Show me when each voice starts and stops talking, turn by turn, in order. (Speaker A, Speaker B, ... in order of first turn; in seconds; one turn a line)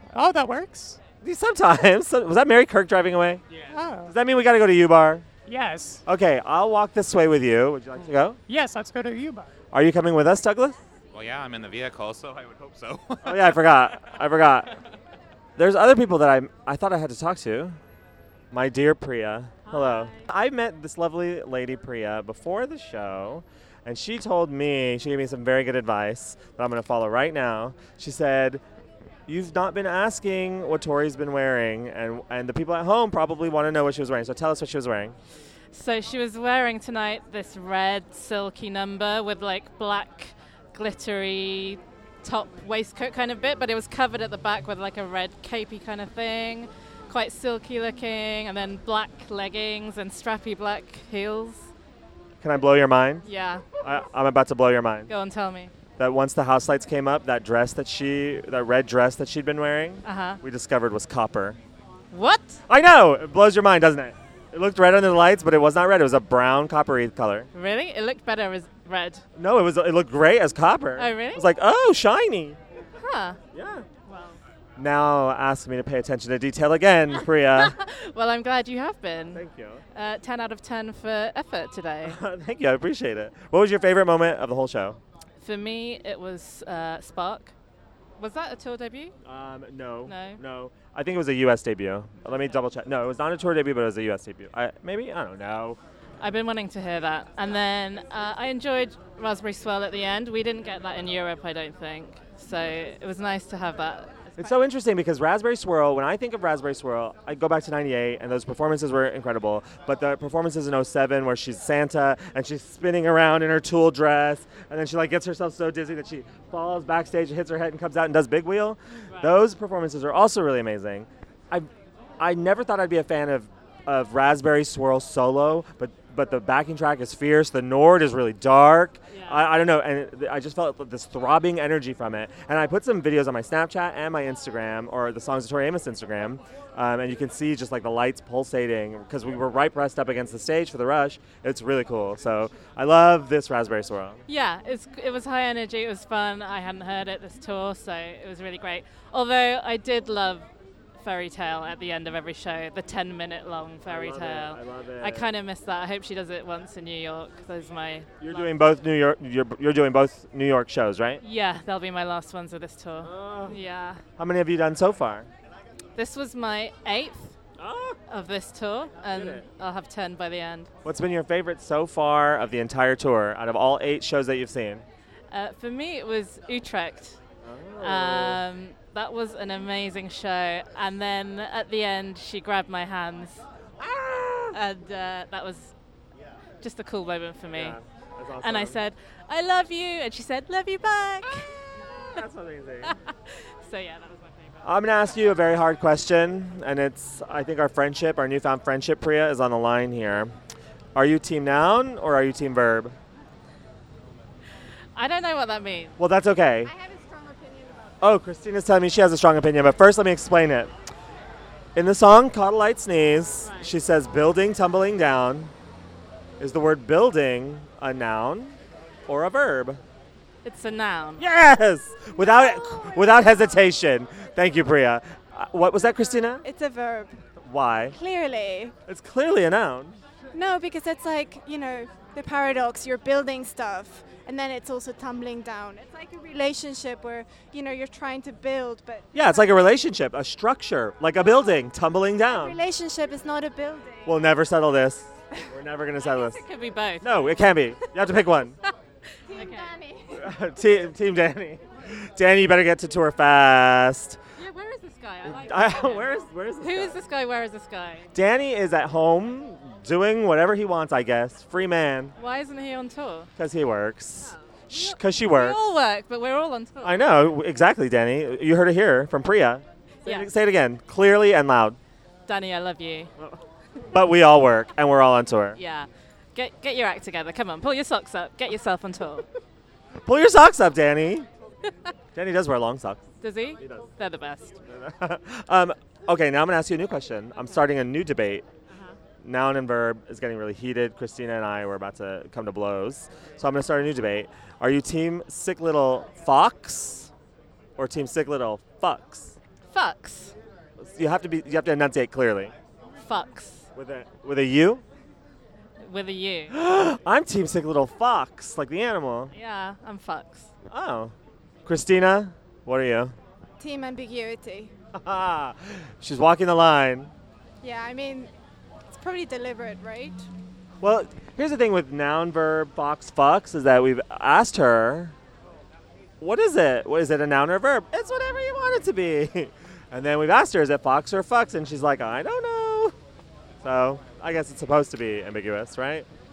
Speaker A: 0.1-1.0
Speaker B: 1.2-3.4
Speaker A: 3.7-4.1
Speaker B: 4.0-5.2
Speaker A: 5.5-6.0
Speaker B: 6.0-8.4
Speaker A: 8.5-9.5
Speaker B: 9.7-10.8
Speaker C: 11.1-13.6
Speaker B: 13.2-14.7
Speaker B: 15.6-17.8
Speaker B: 18.5-28.6
Speaker B: 29.3-35.2
Speaker D: 35.7-51.7
Speaker B: 52.4-53.2
Speaker D: 53.2-53.6
Speaker B: 53.8-55.1
Speaker D: 55.1-55.7
Speaker B: 56.0-61.6
Speaker D: 60.0-60.4
Speaker D: 62.1-62.6
Speaker B: 62.7-67.5
Speaker D: 67.5-69.2
Speaker B: 69.4-72.6
Speaker D: 71.0-71.4
Speaker D: 73.0-73.4
Speaker B: 73.5-73.8
Speaker D: 74.1-74.4
Speaker B: 74.8-77.7
Speaker D: 77.5-82.2
Speaker B: 79.3-79.8
Speaker B: 82.0-85.0
Speaker D: 85.4-87.5
Speaker D: 88.2-89.1
Speaker B: 89.2-95.8
Speaker D: 90.1-90.4
Speaker D: 92.3-92.5
Speaker D: 96.2-104.5
Speaker B: 104.4-121.7
Speaker B: 122.2-144.2
Speaker D: 129.1-129.5
Speaker D: 144.3-150.5
Speaker D: 151.0-158.5
Speaker B: 153.8-155.3
Speaker B: 158.2-161.2
Speaker D: 161.2-164.0
Speaker B: 163.0-163.6
Speaker B: 164.2-165.3
Speaker D: 165.9-167.3
Speaker B: 167.6-168.0
Speaker D: 168.1-170.7
Speaker B: 169.1-169.4
Speaker B: 170.8-174.8
Speaker D: 175.3-177.2
Speaker B: 177.4-178.4
Speaker D: 177.8-183.4
Speaker B: 183.8-184.6
Speaker D: 184.5-185.7
Speaker D: 186.6-187.8
Speaker B: 187.5-188.8
Speaker D: 188.4-191.5
Speaker B: 192.1-192.9
Speaker D: 193.6-194.6
Speaker B: 194.6-200.3
Speaker B: 200.9-202.9
Speaker D: 204.9-206.0
Speaker B: 206.0-206.7
Speaker E: 206.7-207.8
Speaker B: 208.0-210.7
Speaker B: 211.7-215.5
Speaker D: 213.4-213.7
Speaker B: 216.4-219.8
Speaker D: 220.4-221.2
Speaker B: 221.2-226.4
Speaker E: 226.4-227.2
Speaker B: 227.4-227.9
Speaker E: 227.9-228.7
Speaker B: 228.9-230.0
Speaker E: 230.3-239.1
Speaker B: 239.1-242.6
Speaker E: 242.3-244.1
Speaker B: 244.1-246.4
Speaker D: 246.0-247.4
Speaker B: 247.0-248.6
Speaker D: 249.3-249.7
Speaker E: 249.3-250.2
Speaker B: 250.1-254.2
Speaker D: 254.4-258.1
Speaker B: 255.2-257.0
Speaker B: 258.1-262.1
Speaker D: 262.2-263.3
Speaker B: 263.4-265.6
Speaker D: 264.2-267.3
Speaker B: 266.8-271.8
Speaker D: 270.0-270.3
Speaker D: 272.3-273.1
Speaker B: 273.9-275.6
Speaker D: 275.6-279.2
Speaker B: 280.0-281.3
Speaker B: 282.1-283.0
Speaker D: 283.2-284.6
Speaker B: 283.6-283.9
Speaker B: 284.7-288.4
Speaker D: 288.7-288.9
Speaker B: 289.2-297.1
Speaker B: 297.8-299.4
Speaker D: 299.6-300.3
Speaker B: 300.8-302.5
Speaker D: 303.0-303.7
Speaker B: 303.7-304.8
Speaker D: 305.8-306.5
Speaker B: 306.5-309.3
Speaker D: 309.3-310.5
Speaker B: 310.7-311.1
Speaker B: 311.6-313.1
Speaker E: 313.6-314.7
Speaker B: 314.9-317.1
Speaker E: 317.6-318.3
Speaker E: 318.9-320.2
Speaker B: 320.8-325.1
Speaker B: 326.2-332.9
Speaker B: 333.6-336.1